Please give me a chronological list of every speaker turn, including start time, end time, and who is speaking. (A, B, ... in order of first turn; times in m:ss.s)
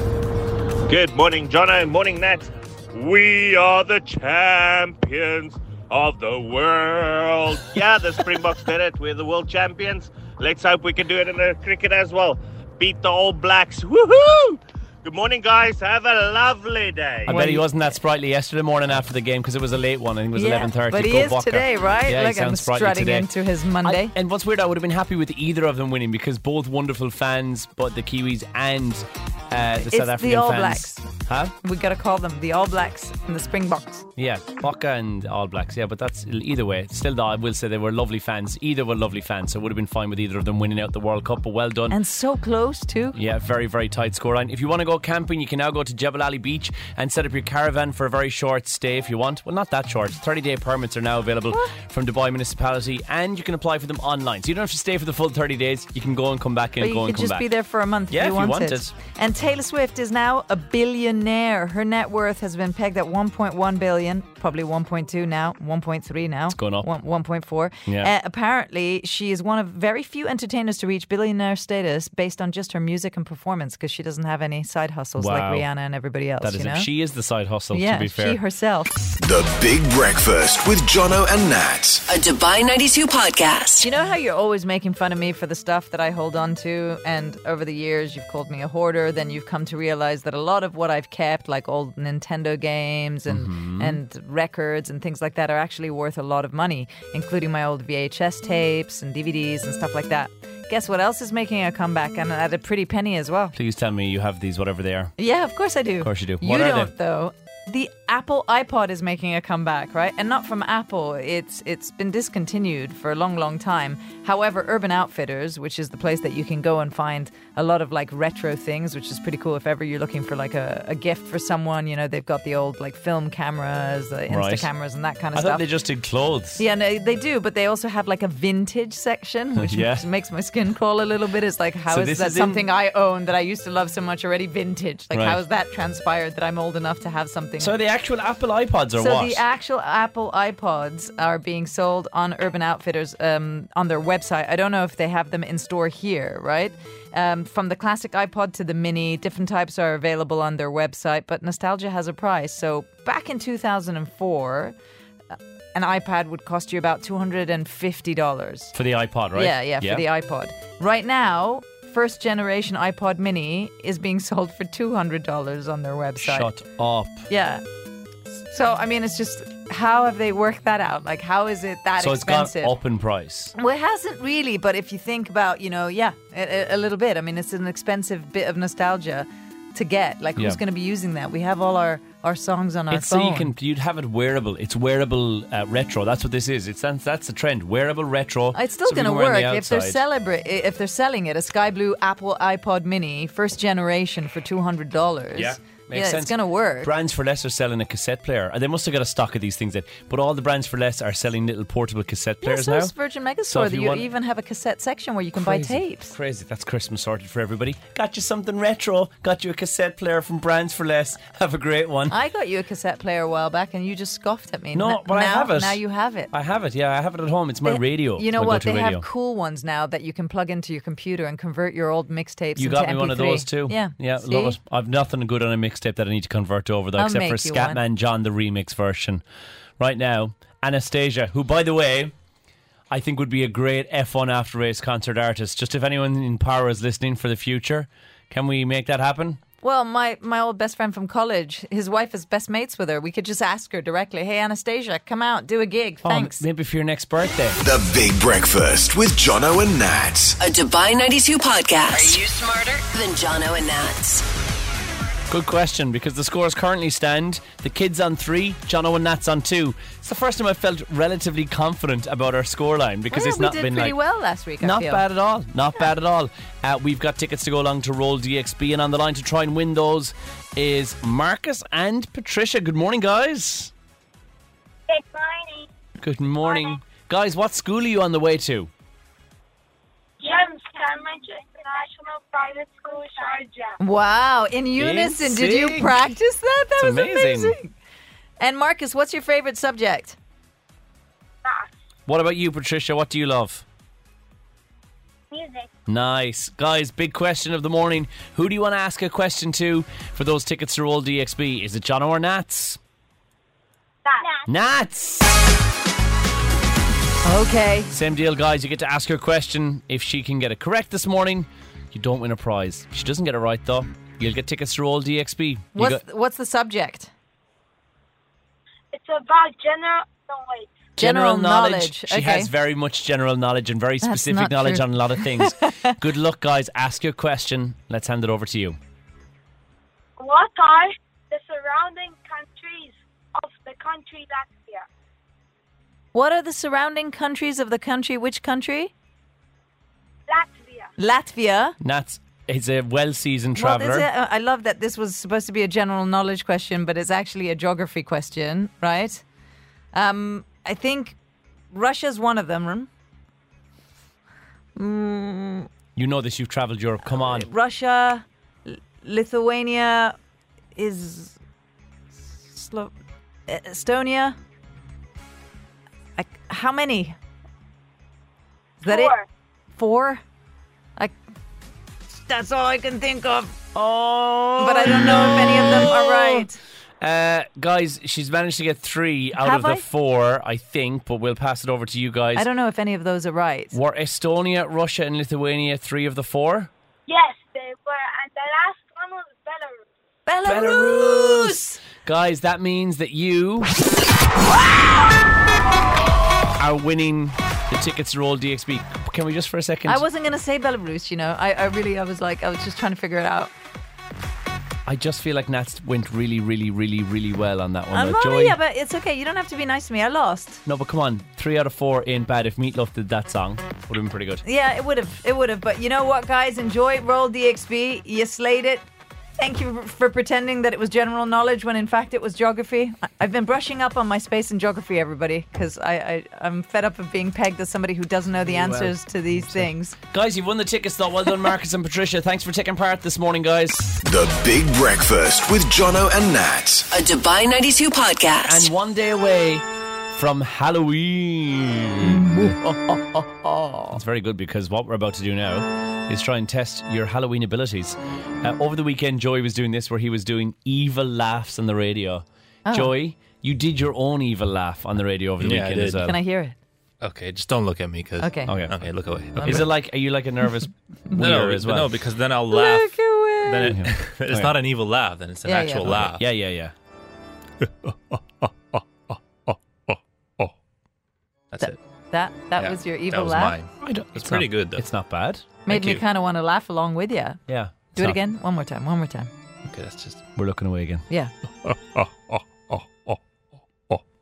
0:00.9-0:17.4 A
0:17.3-0:23.3 B
0:17.3-0:17.7 C
0:20.3-0:24.1 C
0:23.8-0:31.5 B
0:29.8-0:31.0 C
0:31.6-0:34.1 C
0:34.2-0:42.0 B
0:41.9-0:43.2 C
0:43.1-0:57.5 B
0:56.8-1:16.9 C
0:58.1-0:58.9 B
1:06.5-1:06.9 B
1:07.9-1:08.1 B
1:15.2-1:15.7 B
1:16.4-1:18.4 B
1:17.7-1:18.9 C
1:19.2-1:22.0 D
1:22.1-1:23.8 E
1:23.8-1:43.5 C
1:33.3-1:34.0 B
1:43.5-1:45.1 B
1:45.2-2:05.6 C
1:46.0-1:46.9 B
2:04.3-2:04.7 B
2:05.3-2:06.6 B
2:06.6-2:17.8 C
2:09.6-2:10.0 B
2:11.9-2:12.6 B
2:15.1-2:15.4 B
2:17.6-2:19.4 B
2:19.0-2:34.7 C
2:35.7-2:38.7 C
2:38.7-2:40.0 B
2:39.3-2:46.5 C
2:46.2-2:47.2 B
2:47.3-2:47.6 C
2:48.5-2:52.7 C
2:52.0-2:53.5 B
2:53.5-3:03.5 C
3:02.9-3:10.0 B
3:08.5-3:16.9 C
3:15.3-3:22.9 B
3:22.4-3:26.1 C
3:23.5-3:24.0 B
3:25.4-3:32.2 B
3:32.1-3:36.3 C
3:34.7-3:39.0 B
3:37.6-3:44.6 C
3:42.6-3:49.2 B
3:47.0-3:47.8 C
3:49.8-3:52.1 B
3:52.9-3:59.4 B
3:59.6-4:06.4 C
4:06.0-4:07.6 B
4:07.6-4:10.4 D
4:10.4-4:14.2 E
4:15.3-4:24.0 B
4:23.1-4:25.0 C
4:24.6-4:33.7 B
4:34.9-4:35.7 F
4:36.0-4:38.7 B
4:36.4-4:36.7 F
4:40.2-4:43.8 F
4:43.8-4:47.7 C
4:44.8-4:46.2 B
4:46.8-4:47.5 B
4:48.4-4:50.2 C
4:52.1-4:53.6 B
4:55.3-4:55.7 F
4:55.9-5:02.8 B
5:04.0-5:04.5 F
5:04.4-5:05.4 B
5:07.2-5:07.9 C
5:07.9-5:16.0 B
5:15.7-5:17.1 C
5:18.9-5:20.9 F
5:21.0-5:22.5 C
5:21.0-5:28.8 B
5:24.0-5:25.9 C
5:30.2-5:34.8 F
5:36.1-5:38.9 C
5:40.3-5:40.9 F
5:41.0-5:41.8 C
5:41.8-5:44.1 B
5:43.5-5:49.2 C
5:49.9-5:51.2 C
5:51.7-5:52.9 C
5:54.8-5:55.7 C
5:56.0-5:57.5 B
5:57.0-6:00.2 C
6:00.8-6:01.4 C
6:02.4-6:02.9 C
6:03.5-6:04.4 C
6:06.2-6:07.2 C
6:08.8-6:09.1 C
6:08.8-6:09.2 F
6:09.8-6:10.2 C
6:12.1-6:13.6 C
6:13.7-6:16.5 B
6:14.6-6:16.6 C
6:17.0-6:22.4 B
6:19.4-6:19.8 C
6:22.4-6:23.7 C
6:23.7-6:26.7 B
6:27.1-6:29.8 F
6:30.2-6:31.8 C
6:30.4-6:33.7 B
6:36.6-6:40.0 B
6:39.8-6:43.5 C
6:44.8-6:48.6 B
6:47.9-6:50.6 C
6:50.6-6:54.4 B
6:54.4-6:58.8 C
6:59.4-7:09.9 C
7:08.4-7:13.9 B
7:14.0-7:16.9 D
7:16.9-7:18.7 E
7:18.4-7:22.6 B
7:22.1-7:24.0 C
7:23.9-7:36.2 B
7:32.6-7:32.9 C
7:35.4-7:36.0 G
7:36.0-7:36.6 C
7:37.0-7:39.7 G
7:38.2-7:38.5 C
7:38.5-7:38.9 B
7:39.3-7:39.7 C
7:39.4-7:42.0 B
7:41.1-7:46.2 G
7:42.5-7:43.8 C
7:43.6-7:44.6 B
7:45.4-7:46.0 C
7:45.8-7:46.7 B
7:47.6-7:50.5 G
7:51.6-7:53.6 C
7:52.6-7:54.8 G
7:53.8-7:55.6 B
7:55.6-7:57.4 C
7:55.7-7:56.0 G
7:57.5-7:58.2 B
7:57.9-7:59.3 C
7:59.6-8:00.2 G
8:00.3-8:01.0 B
8:01.6-8:03.2 G